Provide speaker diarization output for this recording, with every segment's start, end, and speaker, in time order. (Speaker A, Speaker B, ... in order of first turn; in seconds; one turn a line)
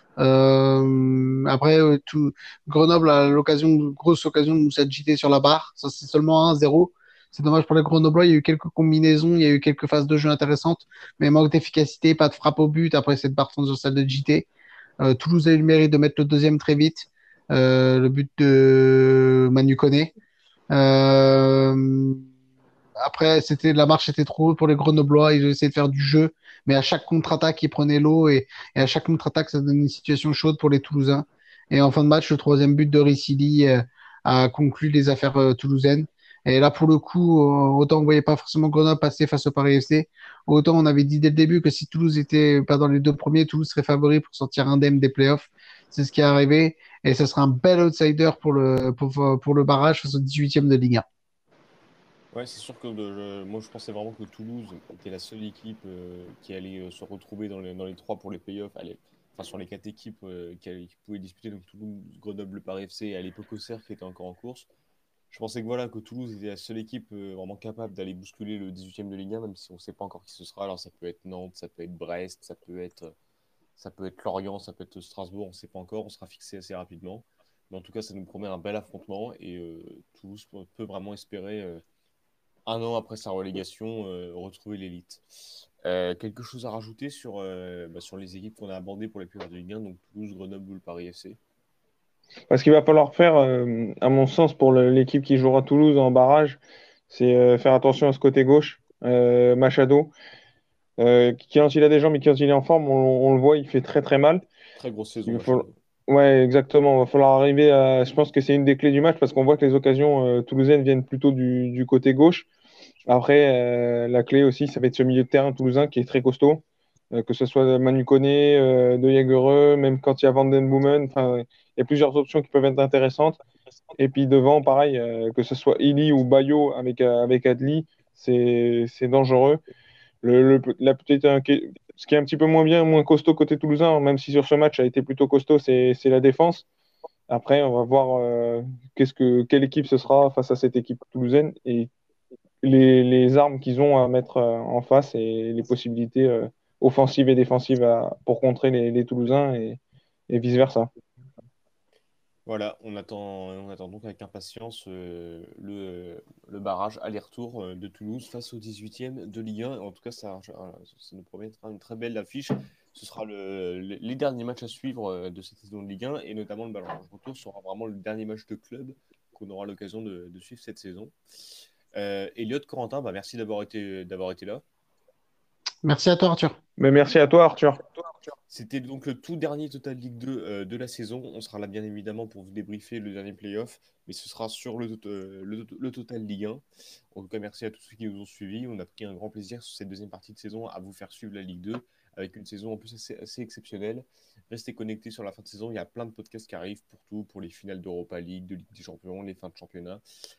Speaker A: 0.2-14.4
Speaker A: 15.0-20.1
Speaker A: 20.7-22.2
Speaker A: 23.0-51.0
Speaker B: 52.3-64.7
Speaker B: 65.3-73.1
Speaker B: 73.8-81.8
Speaker B: 82.7-85.2
Speaker B: 85.8-91.4
Speaker C: 92.5-100.1
Speaker C: 101.0-104.4
Speaker B: 104.8-105.8
Speaker C: 105.2-112.5
Speaker C: 113.0-123.4
Speaker C: 124.0-129.6
Speaker C: 130.2-136.6
Speaker C: 137.3-141.9
Speaker C: 142.6-150.9
Speaker B: 152.4-171.1
Speaker B: 171.9-174.6
Speaker A: 175.8-176.6
Speaker C: 176.8-177.8
Speaker B: 178.5-200.0